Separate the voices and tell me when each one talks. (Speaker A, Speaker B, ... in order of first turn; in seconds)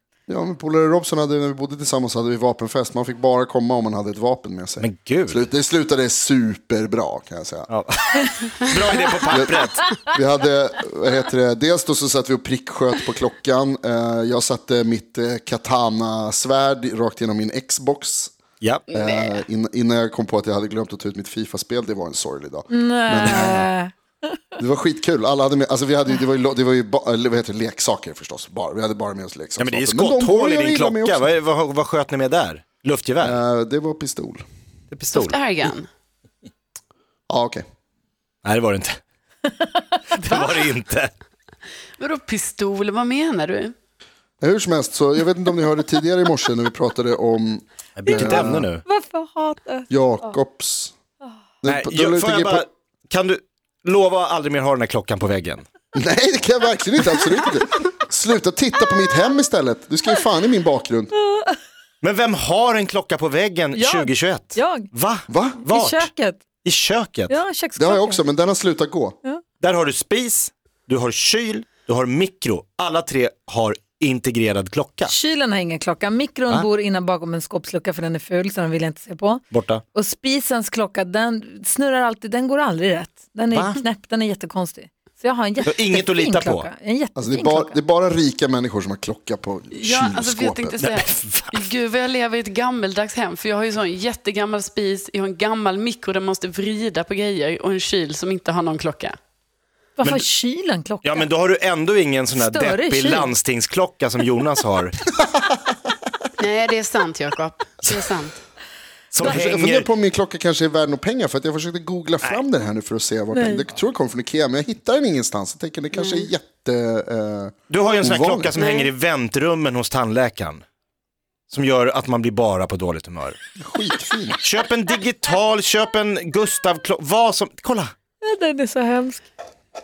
Speaker A: 0.3-7.7, 9.3-18.3, 18.9-23.7, 24.6-31.3, 33.2-34.4, 37.3-37.6, 44.4-48.7, 49.9-50.9, 51.6-52.7, 55.9-61.1, 65.3-65.6, 67.8-69.2, 87.2-90.9, 109.2-118.5, 123.6-124.4
Speaker B: 4.8-5.5, 7.7-9.9, 29.6-33.4, 34.9-35.4, 38.4-39.0, 40.1-41.1, 48.0-48.8, 51.7-55.7, 62.0-66.1, 66.6-67.4, 69.6-75.1, 79.5-79.8, 83.5-83.8, 85.7-86.7, 90.8-91.6, 101.0-105.1, 109.1-109.9, 117.7-120.6, 121.5-123.4, 124.4-127.9
Speaker C: 18.9-19.4, 35.1-35.9, 40.2-40.7, 42.0-43.7, 89.8-99.2, 106.4-108.3, 115.9-116.3, 118.5-118.9
Speaker D: 22.7-24.3, 48.1-50.3, 61.3-61.6, 63.8-64.9, 65.6-66.4, 67.3-68.2, 75.1-87.8, 100.0-101.2, 102.4-103.3, 113.3-113.6, 128.2-129.2